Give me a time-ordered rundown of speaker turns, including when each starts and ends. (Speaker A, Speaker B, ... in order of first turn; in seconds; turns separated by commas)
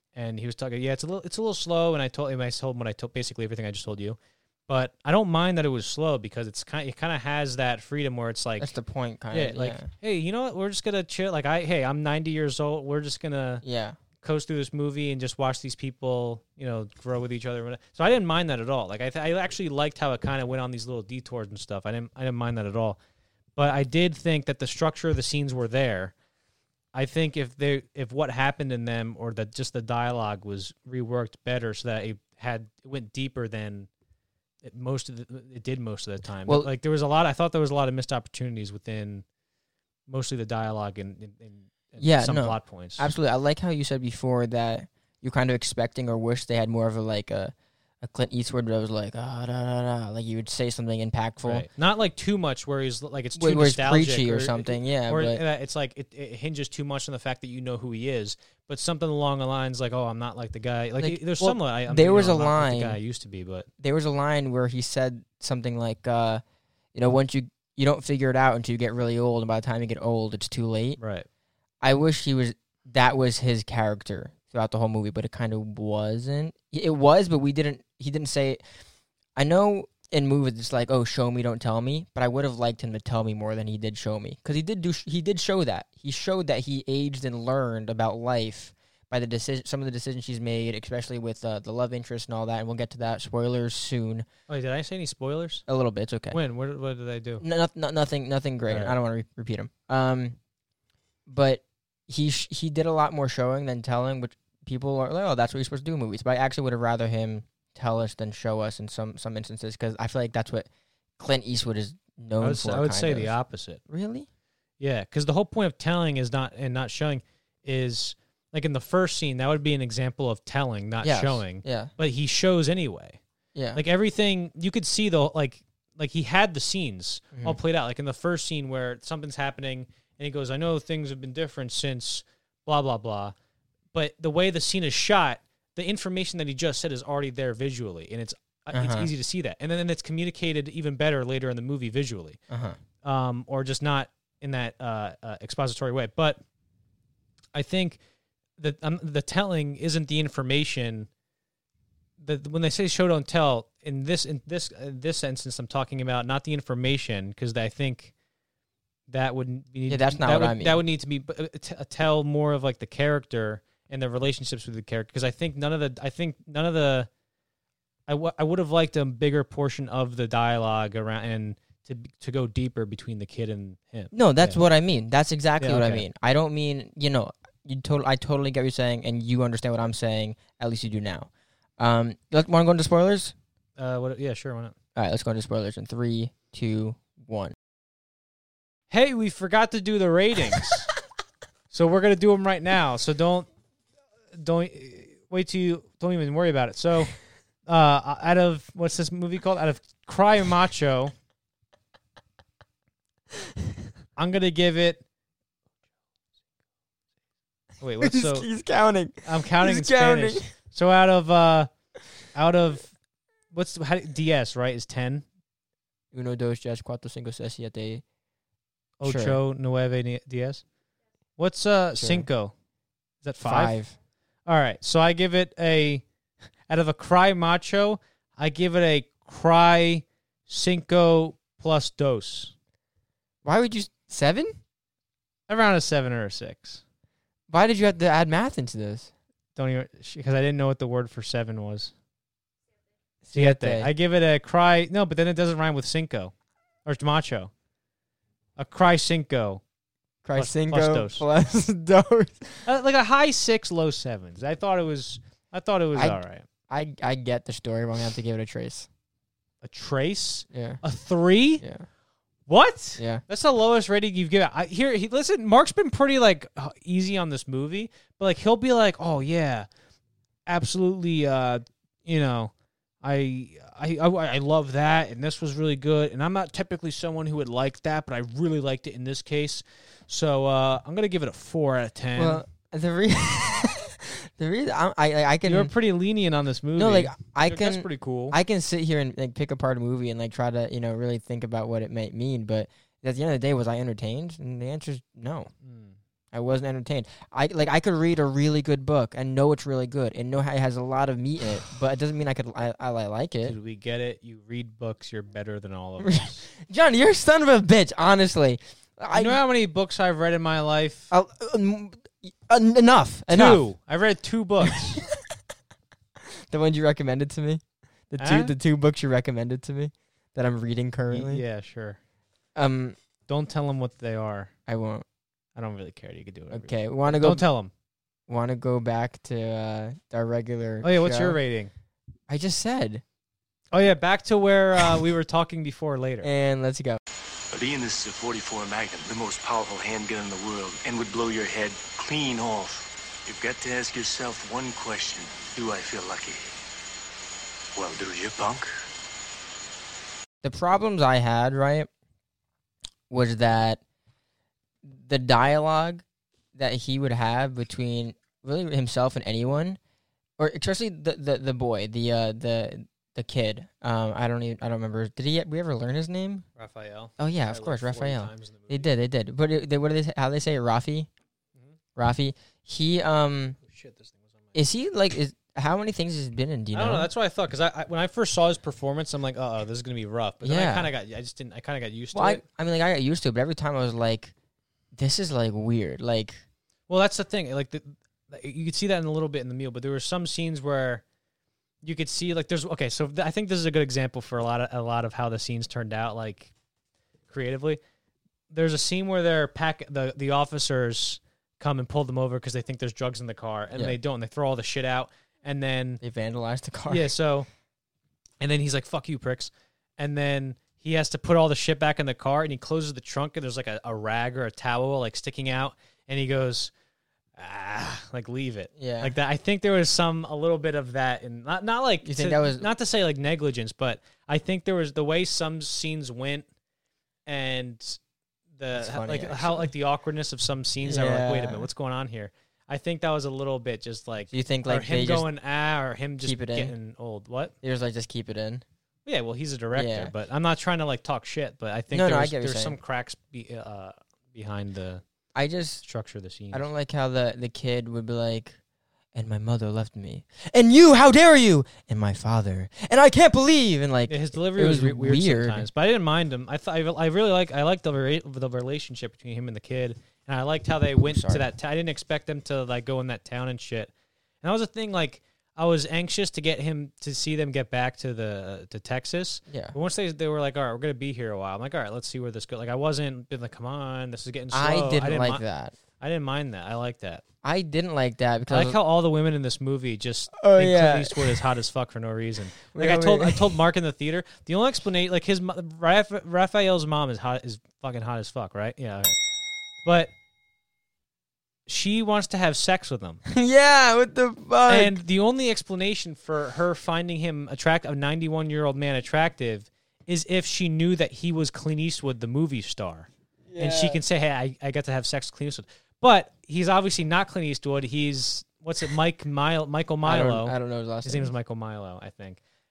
Speaker A: 0.1-8.7, Speaker B: 8.6-9.9, Speaker A: 9.3-13.6, Speaker B: 13.6-14.0, Speaker A: 14.2-23.0, Speaker A: 23.6-26.1, Speaker A: 26.9-33.9, Speaker A: 34.6-39.2, Speaker A: 40.1-43.1, Speaker B: 42.0-51.7, Speaker A: 51.4-63.7, Speaker B: 53.4-55.4, Speaker B: 61.0-63.0, Speaker B: 63.8-66.4, Speaker B: 66.9-71.0, Speaker A: 71.0-71.3, Speaker B: 71.8-78.6, Speaker B: 79.4-94.2, Speaker A: 94.5-95.6, Speaker B: 95.7-96.4, Speaker A: 96.3-97.4, Speaker B: 97.4-100.4, Speaker A: 98.7-98.9, Speaker B: 101.2-110.7, Speaker B: 111.2-113.3, Speaker A: 112.4-113.8, Speaker B: 113.9-114.3, Speaker A: 114.8-123.2, Speaker B: 121.0-121.9, Speaker B: 123.5-123.8, Speaker A: 123.7-133.3, Speaker A: 133.9-142.4, Speaker B: 138.7-139.1, Speaker B: 142.5-142.8, Speaker A: 143.0-146.4, Speaker A: 147.5-148.0, Speaker A: 148.6-151.1, Speaker A: 152.2-158.1, Speaker A: 159.1-167.1, Speaker B: 159.9-160.8, Speaker A: 168.1-174.6, Speaker B: 174.1-183.3, Speaker A: 175.6-176.0, Speaker A: 183.8-184.7, Speaker B: 184.9-187.5, Speaker A: 188.9-190.9, Speaker A: 191.7-193.5, Speaker A: 194.3-201.1, Speaker A: 204.2-205.0, Speaker A: 207.8-208.5, Speaker B: 208.0-210.5, Speaker A: 209.2-211.7, Speaker A: 212.3-213.0, Speaker A: 213.5-215.2, Speaker B: 216.1-218.0, Speaker A: 219.0-220.6, Speaker B: 219.0-219.4, Speaker A: 221.4-222.5, Speaker B: 221.9-222.3, Speaker A: 223.2-223.8, Speaker B: 223.4-223.9, Speaker A: 224.4-226.1, Speaker A: 226.7-232.5, Speaker B: 233.4-234.6, Speaker A: 235.5-236.8, Speaker B: 237.5-239.1, Speaker A: 239.6-241.9, Speaker B: 243.2-243.9, Speaker A: 243.3-247.5, Speaker A: 248.6-249.6, Speaker B: 250.2-252.7, Speaker A: 250.3-251.2, Speaker A: 252.7-256.4, Speaker B: 255.9-258.9, Speaker A: 259.6-261.6, Speaker B: 260.5-260.8, Speaker B: 261.6-261.9, Speaker A: 262.5-269.7, Speaker A: 270.5-282.4, Speaker B: 282.2-285.7, Speaker A: 285.4-288.4, Speaker B: 286.8-295.5, Speaker A: 295.6-295.9, Speaker B: 296.3-303.5, Speaker A: 303.4-306.4, Speaker B: 306.0-309.4, Speaker A: 309.1-311.1, Speaker B: 311.1-313.6, Speaker A: 313.3-315.0, Speaker B: 316.5-321.4, Speaker A: 318.2-318.5, Speaker A: 321.1-322.0, Speaker B: 322.6-323.0, Speaker A: 323.3-324.5, Speaker B: 324.7-325.0, Speaker A: 325.6-327.7, Speaker B: 326.5-327.4, Speaker B: 328.3-331.4, Speaker A: 330.8-331.7, Speaker B: 332.3-333.0, Speaker A: 333.7-336.3, Speaker B: 336.2-337.0, Speaker C: 337.5-346.5, Speaker C: 347.8-348.7, Speaker B: 350.4-351.9, Speaker B: 353.1-353.8, Speaker B: 354.8-359.8, Speaker B: 360.4-366.4, Speaker A: 366.6-368.9, Speaker B: 367.2-371.1, Speaker B: 371.9-373.6, Speaker A: 373.7-374.3, Speaker B: 374.5-377.1, Speaker A: 376.7-382.4, Speaker B: 380.4-380.9, Speaker B: 382.1-384.3, Speaker B: 384.9-386.4, Speaker A: 386.9-391.0, Speaker A: 391.8-396.5, Speaker A: 397.3-397.8, Speaker A: 398.5-406.0, Speaker B: 406.0-407.1, Speaker A: 406.9-407.5, Speaker A: 408.4-416.7, Speaker A: 417.4-426.4, Speaker B: 418.8-419.1, Speaker B: 422.0-422.7, Speaker A: 427.2-428.0, Speaker A: 428.5-437.5, Speaker B: 428.7-429.7, Speaker B: 430.8-431.7, Speaker B: 434.3-435.2, Speaker B: 436.2-436.7, Speaker B: 437.6-438.6, Speaker A: 439.1-445.0, Speaker B: 439.7-440.1, Speaker B: 441.9-442.8, Speaker B: 445.3-445.8, Speaker A: 445.8-446.6, Speaker B: 446.5-448.6, Speaker B: 449.1-455.7, Speaker A: 454.1-475.4, Speaker B: 461.1-461.4, Speaker B: 469.5-469.7, Speaker B: 474.5-475.8, Speaker A: 476.0-477.2, Speaker B: 477.4-478.8, Speaker A: 478.5-489.1, Speaker B: 480.4-481.3, Speaker B: 482.7-483.5, Speaker A: 489.8-490.1, Speaker A: 491.6-493.2, Speaker B: 493.3-494.9, Speaker A: 494.7-512.4, Speaker B: 503.5-504.0, Speaker B: 510.0-511.3